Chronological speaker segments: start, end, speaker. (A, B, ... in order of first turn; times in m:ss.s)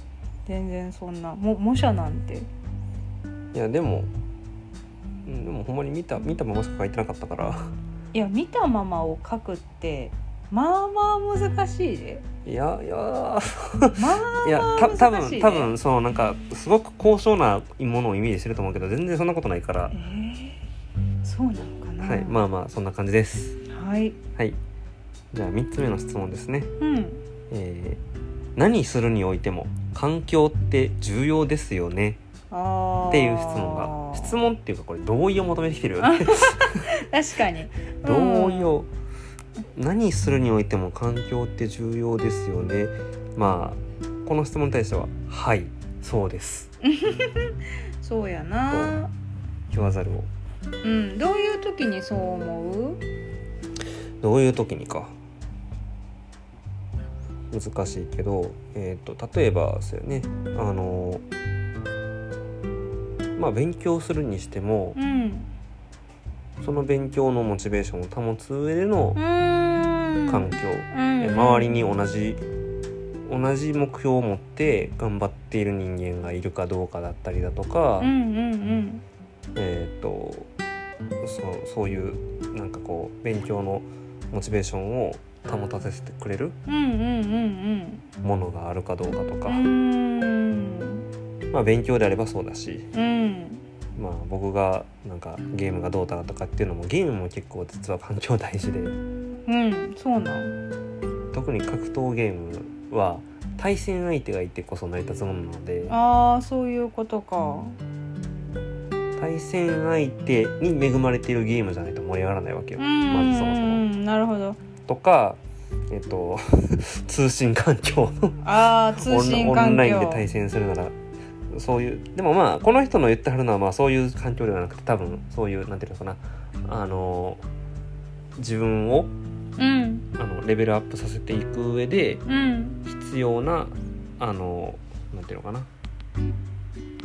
0:00.5-0:02.5 A
0:03.5-0:04.1 B
0:05.2-0:07.7 B
0:08.1-0:12.2 A
0:12.4-0:20.0 B
0:14.0-0:15.8 A
0:19.9-0:20.7 A
0:21.2-0:22.4 A
0:22.0-0:23.6 B
0:23.7-0:24.2 A
0:25.3-0:26.7 B
0:26.8-0:27.2 A
0:27.5-0:28.0 B
0:28.6-0:32.2 B
0:32.5-0:34.4 A
0:33.1-0:36.9 B
0:36.0-0:38.7 A
0:38.0-0:38.9 B
0:39.7-0:46.7 B
0:46.8-0:49.1 A
0:48.7-0:49.0 B
0:49.7-0:50.3 B
0:50.8-0:53.0 A
0:54.2-0:55.2 B
0:57.5-1:01.2 B
1:03.4-1:05.0 B
1:05.0-1:05.5 A
1:06.6-1:09.2 B
1:09.2-1:11.8 A
1:10.3-1:12.4 B
1:13.3-1:18.1 B
1:18.0-1:19.0 A
1:19.6-1:20.5 B
1:21.2-1:26.6 B
1:26.7-1:28.1 A
1:28.2-1:29.7 B
1:29.5-1:31.1 A
1:31.5-1:32.9 B
1:32.9-1:33.7 A
1:34.0-1:39.0 B
1:39.5-1:40.6 A
1:41.3-1:46.0 B
1:45.9-1:47.8 A
1:49.2-1:53.8 B
1:52.8-1:54.6 A
1:54.9-1:58.4 B
1:58.4-2:00.3 A
1:58.9-2:01.0 B
2:01.5-2:07.4 B
2:08.4-2:09.1 B
2:09.6-2:10.1 A
2:10.2-2:12.2 B
2:12.3-2:12.8 A
2:12.8-2:15.7 B